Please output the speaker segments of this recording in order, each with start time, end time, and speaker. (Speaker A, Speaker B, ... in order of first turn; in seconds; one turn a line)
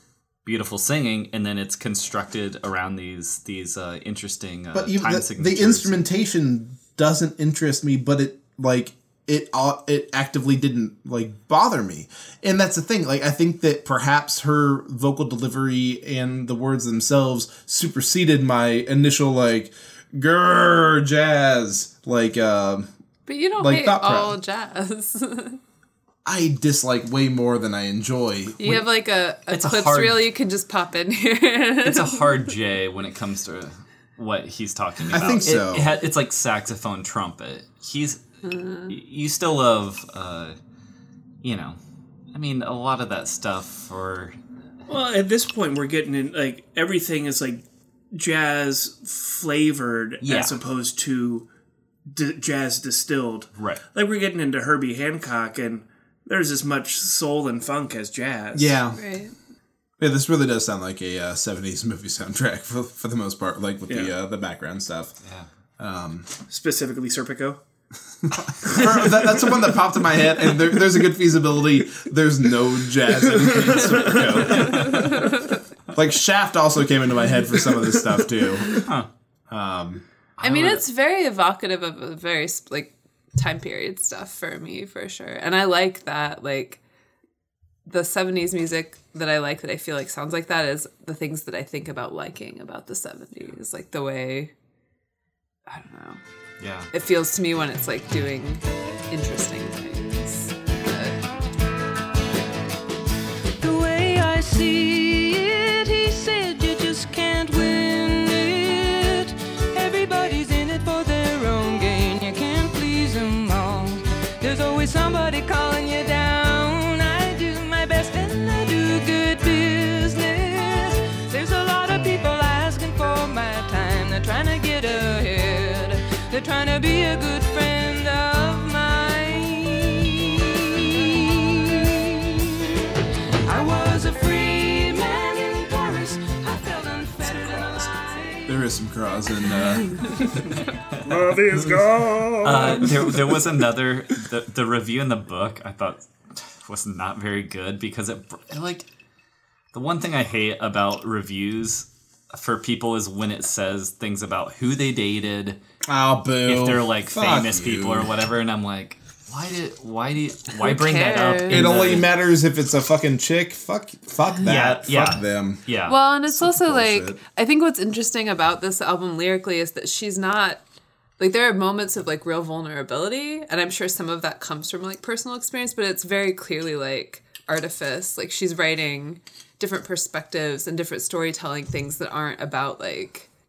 Speaker A: 0.5-6.0
Speaker B: 4.7-22.9
Speaker C: 23.3-25.6
Speaker B: 23.6-24.4
Speaker B: 26.2-28.9
Speaker C: 28.6-32.3
Speaker A: 29.5-30.3
Speaker A: 31.8-38.2
Speaker B: 35.1-36.0
Speaker C: 38.4-38.9
Speaker A: 38.9-40.6
Speaker A: 41.4-41.8
Speaker A: 42.3-44.4
Speaker D: 44.9-51.5
Speaker A: 50.2-50.6
Speaker D: 52.1-58.8
Speaker B: 58.5-59.0
Speaker C: 59.0-59.3
Speaker B: 60.0-65.2
Speaker D: 63.9-64.1
Speaker B: 65.8-66.3
Speaker D: 66.5-67.6
Speaker B: 68.3-75.3
Speaker D: 73.7-74.2
Speaker A: 74.6-74.9
Speaker C: 74.7-75.4
Speaker B: 75.9-78.8
Speaker A: 78.8-79.1
Speaker B: 79.5-80.0
Speaker A: 80.4-80.8
Speaker C: 80.4-86.8
Speaker C: 87.9-94.5
Speaker C: 95.7-96.2
Speaker A: 96.6-96.9
Speaker C: 96.9-101.2
Speaker E: 103.6-132.9
Speaker E: 133.4-138.6
Speaker B: 138.5-140.2
Speaker A: 140.5-141.2
Speaker D: 141.0-143.5
Speaker A: 142.4-148.9
Speaker A: 149.7-155.6
Speaker B: 155.9-158.1
Speaker A: 156.4-162.1
Speaker C: 160.5-161.9
Speaker B: 161.5-165.7
Speaker A: 164.4-166.0
Speaker C: 165.9-170.6
Speaker B: 166.3-167.2
Speaker C: 171.2-183.3